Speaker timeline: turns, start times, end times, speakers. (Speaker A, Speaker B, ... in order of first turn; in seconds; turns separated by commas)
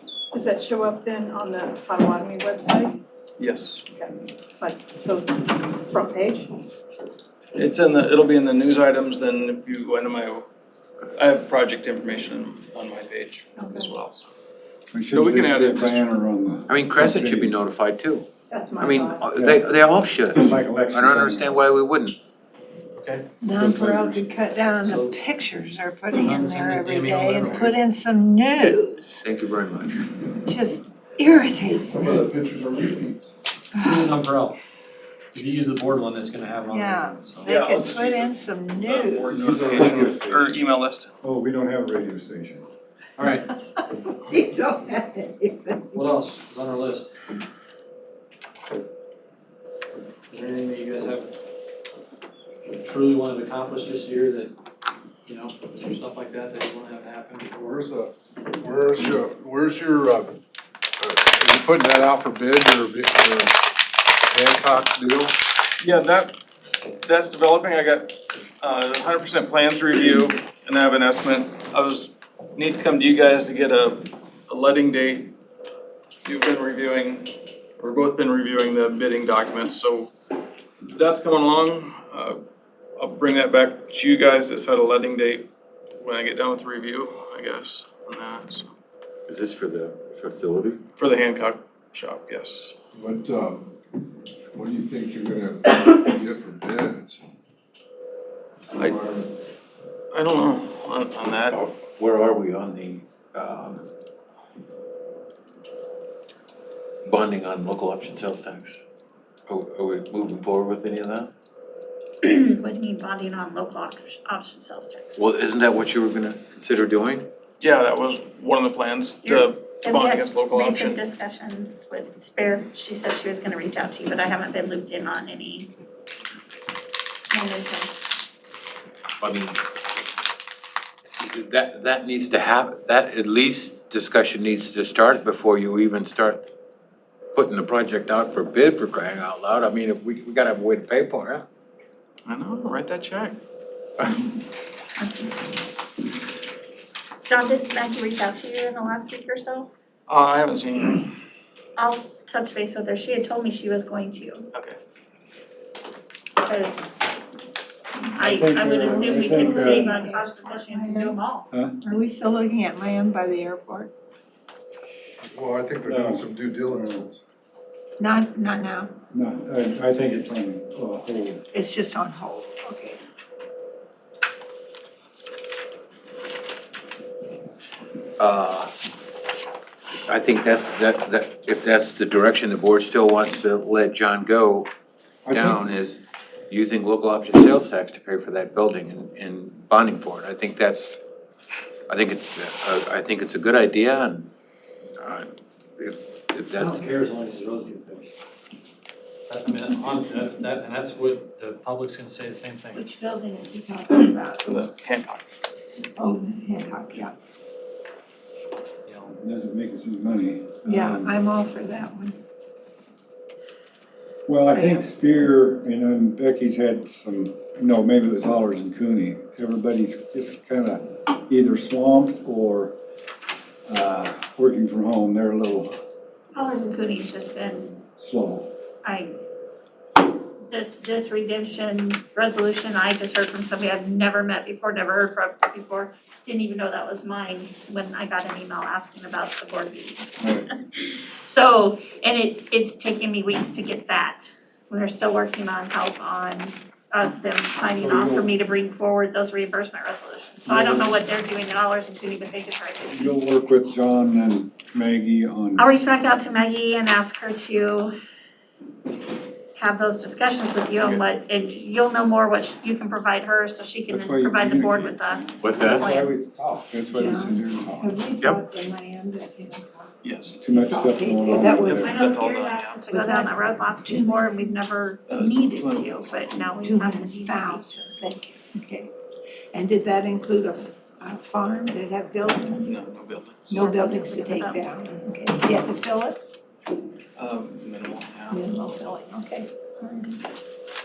Speaker A: 0.3-3.0, Speaker B: 3.4-3.8, Speaker A: 3.9-6.6, Speaker B: 7.5-10.5, Speaker B: 11.2-14.3, Speaker A: 13.6-13.9, Speaker C: 14.9-17.6, Speaker B: 15.1-16.1, Speaker D: 16.7-22.2, Speaker A: 18.5-19.3, Speaker C: 19.3-19.7, Speaker C: 20.3-21.6, Speaker E: 23.0-23.3, Speaker F: 23.4-29.1, Speaker C: 23.5-24.3, Speaker E: 24.8-25.3, Speaker E: 26.1-27.7, Speaker B: 27.4-27.7, Speaker D: 28.6-30.2, Speaker F: 30.4-32.3, Speaker G: 31.9-33.3, Speaker F: 33.7-34.1, Speaker E: 33.8-34.6, Speaker E: 35.3-37.6, Speaker F: 36.7-39.4, Speaker B: 37.4-41.1, Speaker C: 39.3-40.6, Speaker E: 39.5-40.1, Speaker C: 41.2-42.6, Speaker E: 43.2-43.5, Speaker F: 43.8-46.0, Speaker E: 45.9-47.1, Speaker E: 50.3-51.3, Speaker E: 52.7-54.5, Speaker E: 55.3-57.8, Speaker G: 57.6-60.4, Speaker G: 61.0-63.6, Speaker G: 64.3-65.3, Speaker B: 65.8-66.3, Speaker B: 67.0-75.3, Speaker B: 76.2-80.1, Speaker B: 80.8-82.4, Speaker B: 83.0-88.7, Speaker D: 89.3-90.8, Speaker B: 91.0-92.8, Speaker G: 92.9-93.7, Speaker G: 94.5-97.2, Speaker G: 98.6-99.3, Speaker B: 100.1-101.6, Speaker D: 101.5-103.9, Speaker D: 107.0-108.8, Speaker D: 109.5-111.3, Speaker H: 112.2-115.1, Speaker D: 115.2-117.3, Speaker B: 117.6-121.0, Speaker H: 119.2-125.7, Speaker H: 127.3-127.9, Speaker D: 129.2-129.6, Speaker D: 131.2-136.5, Speaker D: 137.3-141.5, Speaker B: 142.3-143.4, Speaker H: 145.0-145.3, Speaker H: 147.3-149.7, Speaker B: 150.1-151.1, Speaker H: 151.8-154.5, Speaker B: 154.5-154.8, Speaker H: 156.4-156.9, Speaker H: 158.2-161.5, Speaker C: 158.2-159.9, Speaker F: 158.7-161.2, Speaker F: 161.8-163.9, Speaker G: 165.2-167.2, Speaker C: 165.8-167.1, Speaker F: 168.0-168.9, Speaker C: 169.1-171.4, Speaker F: 171.5-173.0, Speaker D: 178.2-178.7, Speaker D: 180.1-184.7, Speaker C: 185.3-185.7, Speaker D: 185.3-191.0, Speaker D: 191.9-194.3, Speaker D: 195.0-196.8, Speaker E: 196.8-198.1, Speaker E: 199.3-202.8, Speaker F: 202.7-204.7, Speaker B: 204.4-205.2, Speaker F: 206.0-207.2, Speaker E: 208.9-209.2, Speaker C: 209.1-211.2, Speaker F: 210.6-212.2, Speaker C: 214.3-222.8, Speaker F: 214.5-214.9, Speaker C: 223.7-225.8, Speaker H: 226.3-227.8, Speaker C: 228.0-228.5, Speaker H: 228.8-229.2, Speaker H: 230.5-240.2, Speaker C: 240.2-240.5, Speaker H: 240.7-253.2, Speaker C: 247.8-248.3, Speaker C: 250.4-251.0, Speaker C: 252.9-255.7, Speaker H: 255.6-257.9, Speaker H: 259.6-266.1, Speaker C: 263.9-267.9, Speaker D: 265.4-265.9, Speaker F: 266.9-271.9, Speaker B: 270.0-270.4, Speaker C: 270.4-272.0, Speaker B: 271.6-272.8, Speaker H: 271.7-277.8, Speaker F: 272.9-274.6, Speaker B: 275.1-276.5, Speaker F: 276.6-278.9, Speaker F: 279.5-282.8, Speaker B: 282.6-283.6, Speaker F: 283.5-286.2, Speaker H: 283.5-284.7, Speaker B: 287.2-288.4, Speaker F: 288.3-290.2